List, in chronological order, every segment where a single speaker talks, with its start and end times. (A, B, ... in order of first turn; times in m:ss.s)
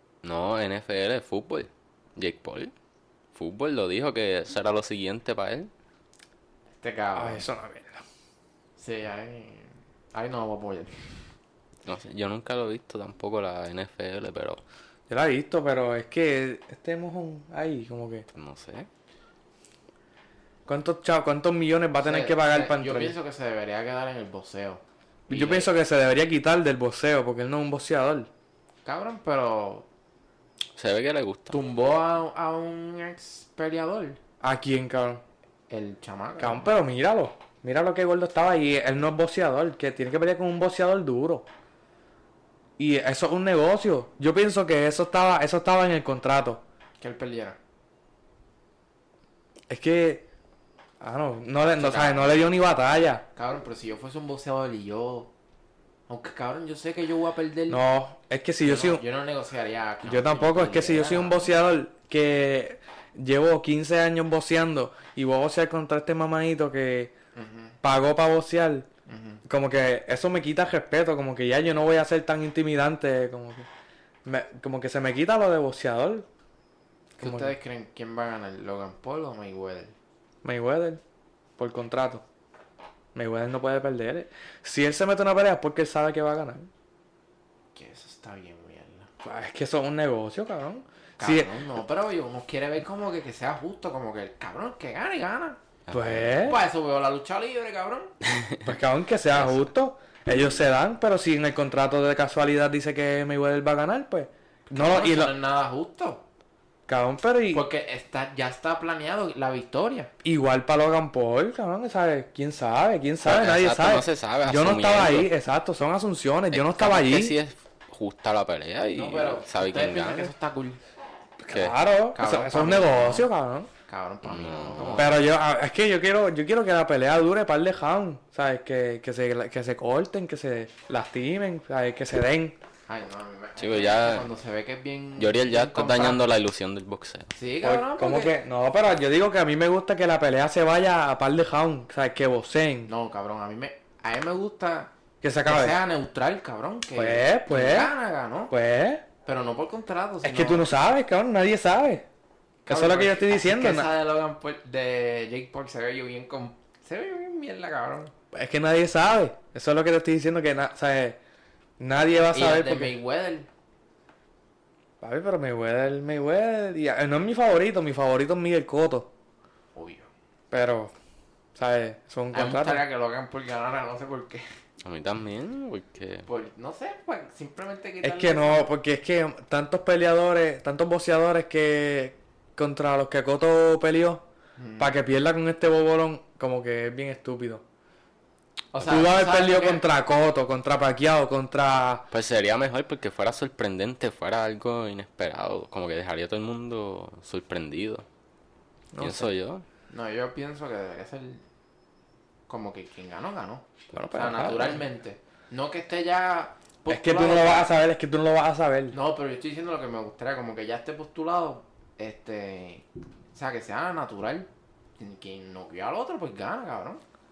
0:00.2-0:02.7 A
0:03.3-0:05.7 A
0:06.8-0:07.4 B
0:07.1-0:08.0 C
0:08.8-0:11.3 B
0:11.8-0:14.6 A
0:15.1-0:18.2 C
0:18.3-0:18.9 A
0:20.7-0:23.1 C
0:22.0-0:25.7 B
0:25.3-0:28.3 C
0:28.8-0:29.9 B
0:30.8-0:31.6 A
0:31.5-0:34.2 B
0:34.4-0:35.2 C
0:35.7-0:36.7 B
0:36.4-0:41.4 C
0:42.8-0:46.6 C
0:47.0-0:47.6 B
0:49.7-0:50.2 C
0:51.0-0:53.2 C
0:51.7-0:52.5 B
0:53.3-0:55.3 B
0:56.1-0:57.8 B
0:57.7-0:59.0 C
0:58.6-1:01.5 B
1:00.0-1:07.1 C
1:07.3-1:07.8 B
1:07.8-1:08.9 C
1:09.0-1:09.4 B
1:09.4-1:13.7 C
1:14.2-1:16.2 C
1:17.2-1:17.5 C
1:17.2-1:19.9 B
1:20.4-1:21.0 C
1:21.6-1:22.2 C
1:23.1-1:26.7 C
1:27.7-1:29.1 B
1:29.2-1:31.5 C
1:31.2-1:35.6 B
1:35.9-1:36.3 A
1:35.9-1:36.6 C
1:36.3-1:38.1 B
1:38.2-1:38.6 A
1:38.6-1:45.3 C
1:39.3-1:39.6 B
1:44.7-1:46.2 B
1:46.9-1:47.6 C
1:47.5-1:50.1 B
1:50.2-1:57.4 C
1:53.2-1:55.3 A
1:56.5-2:00.3 A
1:58.9-2:00.8 B
2:01.4-2:03.7 C
2:01.5-2:01.8 A
2:02.1-2:03.3 B
2:03.9-2:05.2 B
2:04.2-2:05.2 A
2:05.0-2:12.6 C
2:12.9-2:16.2 B
2:13.6-2:14.3 A
2:15.2-2:17.3 A
2:17.3-2:18.4 B
2:17.6-2:22.9 C
2:22.8-2:24.9 B
2:25.2-2:25.8 C
2:25.4-2:28.5 B
2:27.0-2:27.9 C
2:28.5-2:29.0 C
2:29.2-2:30.7 B
2:30.2-2:32.0 C
2:32.6-2:38.1 B
2:32.7-2:33.9 C
2:38.3-2:41.2 C
2:41.8-2:42.9 C
2:42.3-2:43.5 B
2:45.0-2:49.1 C
2:49.7-2:50.1 B
2:50.5-2:50.9 C
2:51.5-2:52.8 C
2:52.3-2:54.4 B
2:54.8-2:56.3 A
2:56.2-2:58.7 B
2:58.0-3:04.2 C
3:04.6-3:04.9 B
3:04.8-3:07.6 C
3:08.7-3:09.8 B
3:08.8-3:12.1 C
3:12.1-3:18.0 A
3:18.9-3:19.3 C
3:19.0-3:19.6 A
3:19.9-3:21.4 B
3:22.5-3:27.7 B
3:23.9-3:24.8 C
3:26.9-3:29.0 C
3:28.9-3:37.0 B